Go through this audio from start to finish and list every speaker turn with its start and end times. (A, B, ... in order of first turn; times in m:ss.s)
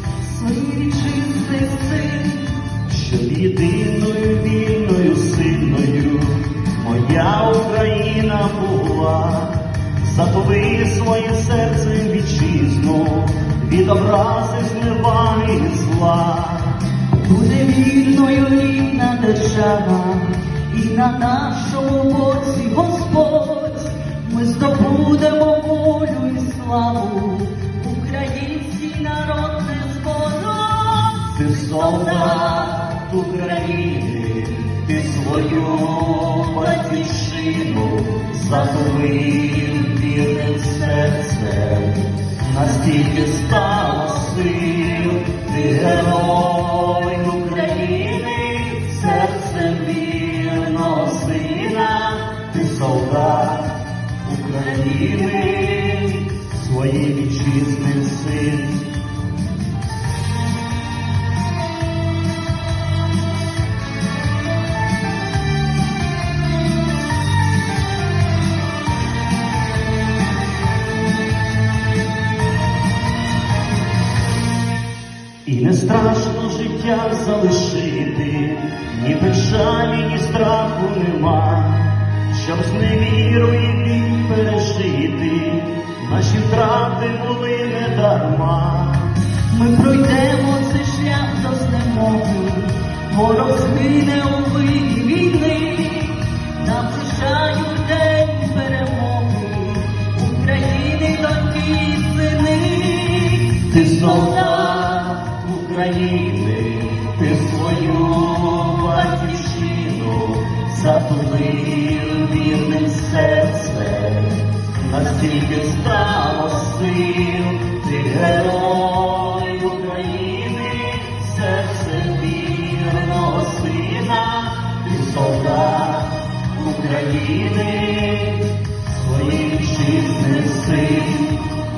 0:00.2-0:02.8 A
0:02.9-0:16.8 B
0:17.1-0:32.5 A
0:31.3-0:58.9 B
1:15.5-1:29.2 B
1:29.5-1:43.6 A
1:43.6-2:11.6 B